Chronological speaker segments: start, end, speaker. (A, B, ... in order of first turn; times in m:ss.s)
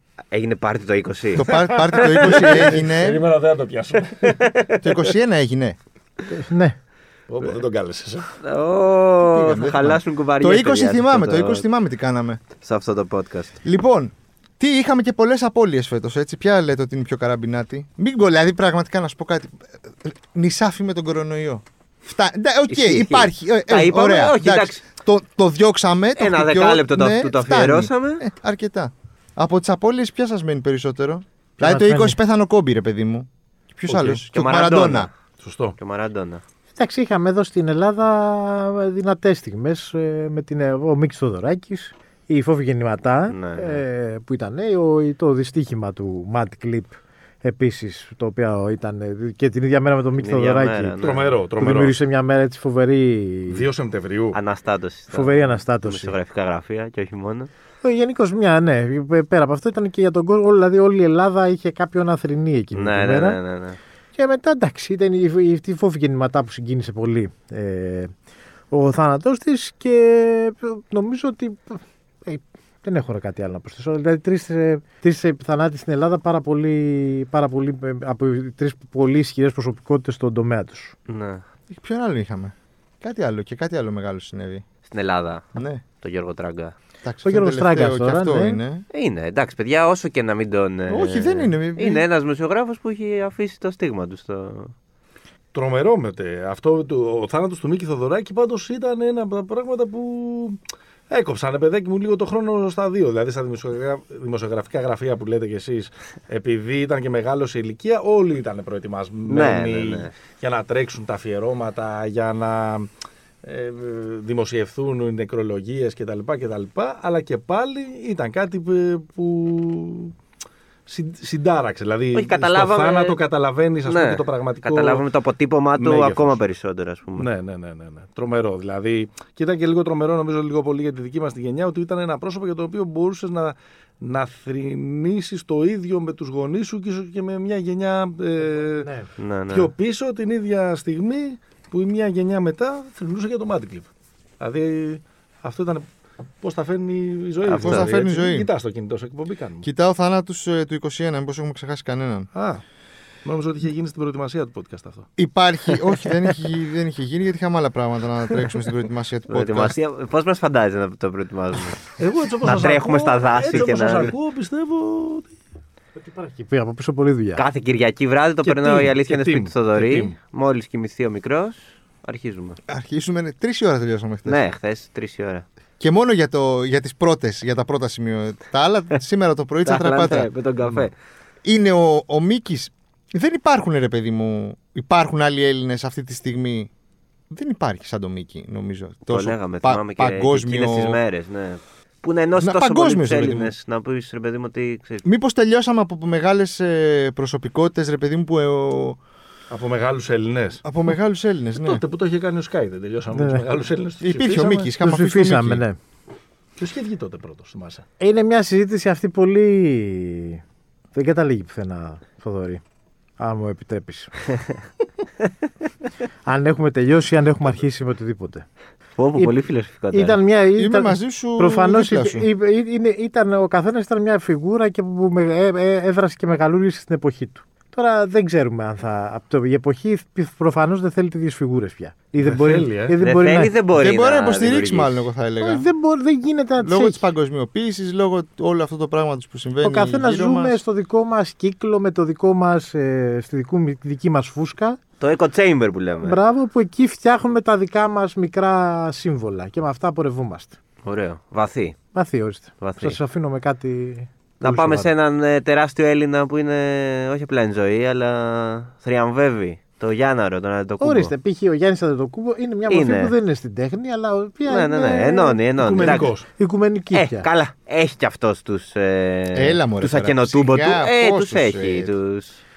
0:00.3-0:02.7 A
0:01.3-0:03.2 B
0:01.4-0:04.5 C
0:04.2-0:05.1 A
0:04.8-0:05.8 B
0:06.3-0:06.8 D
0:07.3-0:08.4 C
0:08.4-0:11.6 A
0:09.2-0:12.4 B
0:12.6-0:13.6 A
0:13.6-0:35.1 B
0:22.7-0:24.8 A
0:26.2-0:28.2 A
0:31.6-0:32.2 D
0:33.9-0:34.2 C
0:34.3-0:35.1 A
0:35.4-0:35.8 C
0:35.8-0:36.4 A
0:36.8-0:53.6 D
0:43.3-0:43.8 A
0:50.2-0:51.3 A
0:51.0-0:52.0 C
0:53.5-0:54.4 C
0:54.3-0:57.5 A
0:55.1-0:56.1 D
0:57.8-1:03.4 D
1:02.7-1:03.8 A
1:04.2-1:08.1 D
1:08.7-1:20.9 D
1:21.1-1:21.4 A
1:21.7-1:24.6 B
1:24.9-1:26.7 A
1:25.5-1:25.8 B
1:27.0-1:28.8 B
1:27.2-1:28.6 D
1:28.9-1:34.7 A
1:30.9-1:32.0 B
1:35.5-1:40.6 C
1:41.1-1:52.9 C
1:49.3-1:50.1 A
1:53.4-2:00.1 C
2:00.8-2:05.0 C
2:02.1-2:03.2 A
2:03.8-2:07.3 A
2:05.8-2:06.4 C
2:07.2-2:18.9 C
2:18.6-2:19.1 D
2:19.2-2:19.7 A
2:19.5-2:23.9 C
2:24.4-2:25.9 C
2:26.4-2:29.7 C
2:27.5-2:27.9 A
2:27.5-2:28.5 B
2:29.6-2:32.3 B
2:32.3-2:32.6 C
2:33.2-2:35.1 C
2:35.2-2:39.8 B
2:39.3-2:44.1 A
2:42.0-2:45.3 C
2:46.0-2:47.4 D
2:47.4-2:52.6 A
2:48.4-2:50.1 C
2:52.7-2:54.4 B
2:54.2-2:55.4 A
2:55.8-3:00.3 B
2:59.6-3:00.9 A
3:01.4-3:06.7 B
3:07.3-3:11.0 B
3:09.1-3:15.0 A
3:12.4-3:13.5 B
3:15.0-3:19.0 B
3:19.5-3:20.6 C
3:20.6-3:21.8 B
3:21.5-3:24.7 C
3:23.1-3:23.4 D
3:24.0-3:25.6 B
3:24.8-3:25.8 D
3:26.6-3:27.8 C
3:28.0-3:30.4 D
3:30.9-3:32.6 D
3:33.2-3:34.3 D
3:36.2-3:38.4 D
3:39.0-3:40.2 A
3:39.9-3:53.5 D
3:40.6-3:42.3 B
3:52.2-3:53.0 C
3:53.0-3:55.1 A
3:53.7-3:55.7 B
3:55.4-3:57.0 D
3:56.6-4:00.6 B
3:59.6-4:04.8 D
4:05.0-4:06.2 A
4:06.0-4:10.6 D
4:10.8-4:11.8 A
4:11.9-4:14.9 D
4:12.6-4:13.0 A
4:14.4-4:21.1 A
4:20.8-4:27.3 D
4:22.7-4:23.1 A
4:24.4-4:26.1 A
4:25.6-4:26.2 C
4:26.9-4:32.4 A
4:29.3-4:31.9 B